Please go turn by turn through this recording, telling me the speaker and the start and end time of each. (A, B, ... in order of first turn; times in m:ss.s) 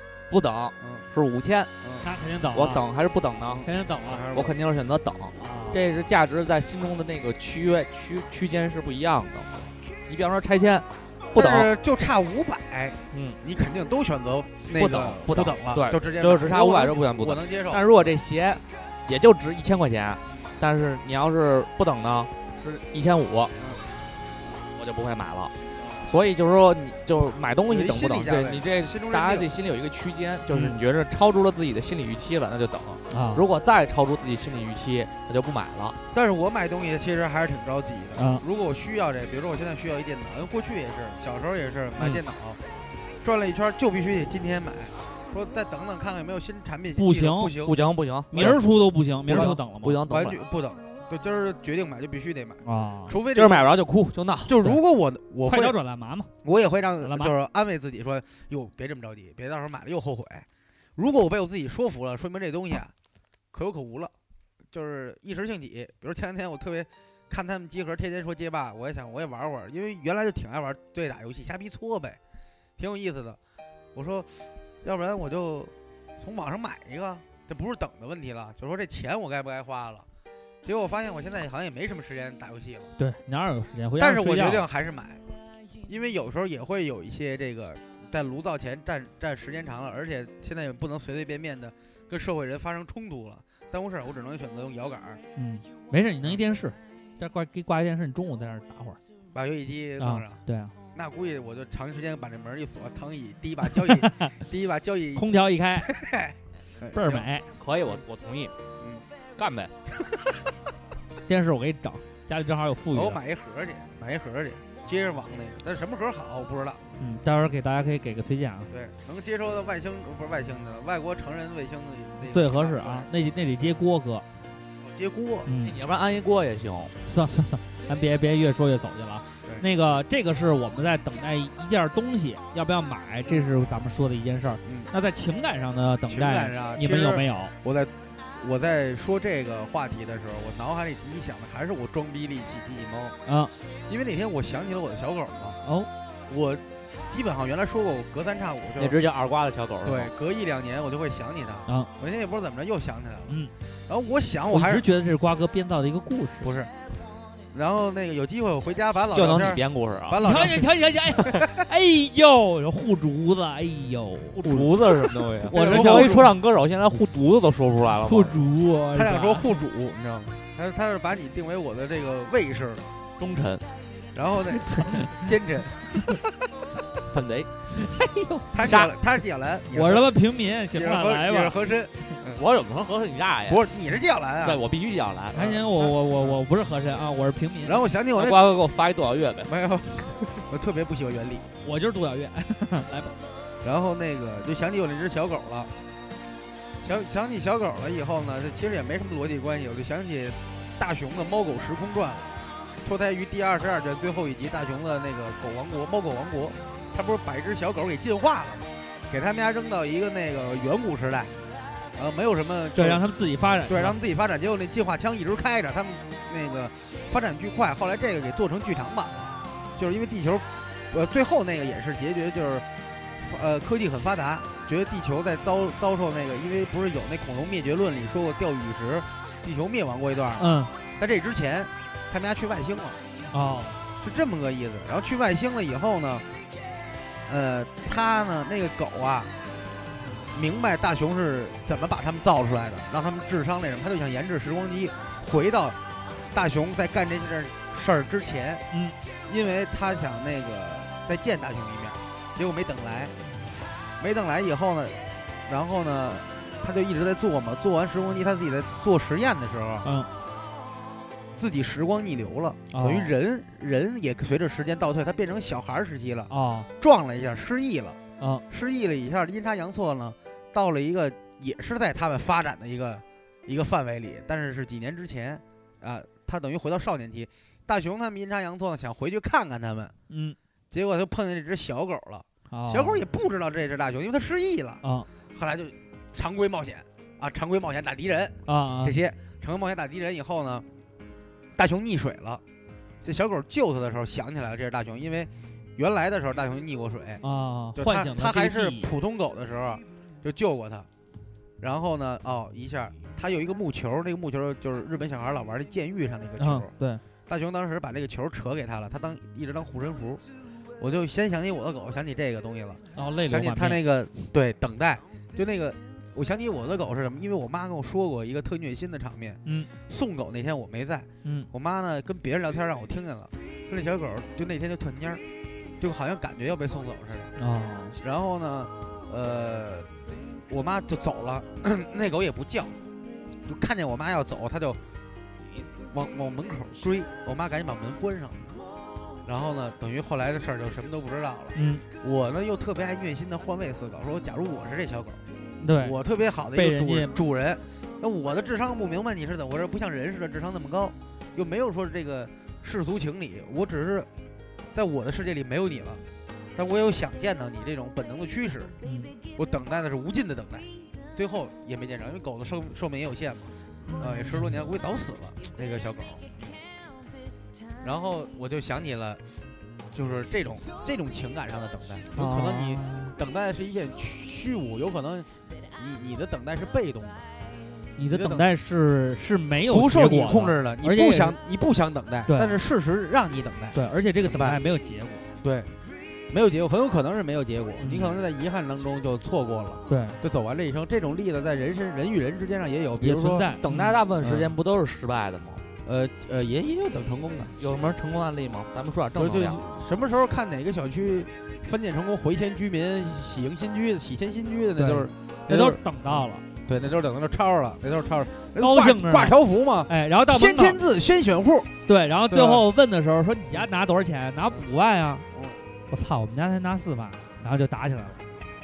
0:00.3-0:01.7 A
0:00.8-0:01.1 B
0:02.0-0:02.8 C
0:02.5-0:03.6 A
0:03.5-0:04.6 B
0:03.6-0:04.3 C
0:04.3-0:11.7 A
0:05.4-0:05.8 C
0:11.3-0:17.9 B
0:13.1-0:13.4 A
0:14.8-0:23.5 A
0:23.6-0:23.8 B
0:24.8-0:36.0 A
0:27.7-0:29.5 B
0:33.1-0:33.4 C
0:36.1-0:42.6 B
0:38.2-0:38.4 C
0:43.2-0:47.8 B
0:47.0-0:47.6 C
0:47.6-0:48.7 A
0:48.3-0:50.0 C
0:48.4-0:48.6 B
0:49.3-0:50.4 A
0:49.3-0:53.7 B
0:52.6-0:53.2 C
0:53.3-0:54.7 A
0:54.5-0:55.8 B
0:55.5-0:56.3 C
0:56.4-1:02.9 B
0:57.0-0:57.3 C
1:03.5-1:04.1 B
1:04.7-1:12.2 B
1:12.8-1:13.4 B
1:14.0-1:20.1 B
1:20.6-1:22.9 B
1:23.0-1:24.6 C
1:24.0-1:25.2 B
1:25.9-1:35.2 B
1:35.4-1:39.0 C
1:39.3-1:40.4 B
1:40.0-1:40.7 C
1:40.9-1:47.3 B
1:43.8-1:44.4 C
1:45.2-1:45.9 C
1:46.9-1:47.5 C
1:47.6-1:48.5 A
1:48.8-1:49.0 B
1:49.4-1:49.7 A
1:51.3-1:53.2 C
1:52.9-1:56.9 B
1:57.0-1:58.7 C
1:58.7-2:03.1 B
2:02.3-2:04.2 C
2:04.8-2:05.5 B
2:05.5-2:05.8 C
2:05.6-2:06.9 A
2:07.1-2:17.5 C
2:14.6-2:14.9 B
2:16.1-2:23.2 B
2:23.3-2:23.5 C
2:23.9-2:25.6 B
2:25.6-2:25.9 C
2:26.3-2:29.0 B
2:28.8-2:30.1 A
2:29.8-2:34.9 B
2:34.5-2:36.5 C
2:36.4-2:36.7 B
2:37.5-2:41.5 B
2:39.1-2:40.2 A
2:40.2-2:44.5 C
2:44.4-2:48.4 A
2:45.4-2:46.3 C
2:45.5-2:46.3 B
2:48.0-2:49.5 C
2:48.9-2:52.9 B
2:53.2-2:53.6 A
2:54.1-2:56.2 B
2:54.7-2:55.2 C
2:57.0-2:57.5 A
2:57.8-2:58.5 C
2:58.5-3:00.2 B
2:58.6-2:59.0 A
2:59.7-3:01.6 C
3:00.7-3:02.3 B
3:02.2-3:03.8 A
3:03.5-3:04.6 B
3:04.4-3:05.5 A
3:05.3-3:07.8 C
3:05.4-3:06.3 B
3:07.6-3:08.5 B
3:08.2-3:09.5 A
3:09.4-3:11.5 B
3:11.6-3:13.2 C
3:13.6-3:15.7 B
3:16.8-3:31.3 B
3:32.0-3:33.0 B
3:32.8-3:34.0 C
3:33.7-3:42.7 B
3:43.2-3:53.0 B
3:50.4-3:50.7 C
3:53.3-3:53.8 C
3:54.0-3:56.3 B
3:57.3-3:59.3 B
4:00.0-4:00.3 C
4:00.3-4:05.8 B
4:06.3-4:08.6 B
4:09.3-4:13.1 B
4:14.0-4:19.9 B
4:19.8-4:20.1 C
4:21.4-4:28.0 B
4:22.7-4:23.2 C
4:26.3-4:26.7 C
4:28.5-4:39.9 B
4:40.1-4:40.4 C
4:40.7-4:44.8 B
4:42.5-4:43.0 C
4:44.8-4:45.1 C
4:45.3-4:50.6 B
4:48.5-4:49.0 C
4:51.6-4:52.4 B
4:53.0-4:57.2 B
4:57.2-4:58.9 C
4:57.8-5:00.9 B
5:01.6-5:06.7 B
5:06.4-5:07.0 C
5:07.3-5:10.2 B
5:10.8-5:25.2 B
5:13.0-5:13.8 C
5:21.2-5:21.5 C
5:25.8-5:27.3 B
5:27.4-5:28.0 C
5:28.0-5:29.9 B
5:30.5-5:32.8 B
5:33.5-5:34.8 B
5:35.7-5:38.4 B
5:39.2-5:45.2 B
5:41.5-5:41.8 C
5:45.6-5:46.0 C
5:45.8-5:54.1 B
5:46.5-5:47.2 C
5:54.7-5:56.0 B
5:56.6-5:58.8 B
5:58.8-5:59.2 C
5:59.3-6:06.5 B
6:03.9-6:04.6 C
6:07.8-6:09.2 B
6:09.9-6:17.3 B
6:12.1-6:13.1 C
6:18.0-6:21.4 C
6:18.1-6:18.5 B
6:19.7-6:24.6 B
6:22.3-6:22.6 C
6:23.7-6:25.2 C
6:25.4-6:25.7 B
6:26.3-6:33.5 B
6:27.8-6:28.1 C
6:29.9-6:30.2 C
6:33.0-6:34.0 C
6:33.6-6:35.6 A
6:34.2-6:34.5 B
6:35.8-6:37.6 B
6:37.6-6:39.6 A
6:39.2-6:45.8 B
6:44.8-6:46.4 C
6:46.7-6:51.7 B
6:48.6-6:50.8 C
6:51.9-6:55.3 C
6:52.3-6:52.6 B
6:55.3-6:55.6 B
6:55.9-6:58.2 C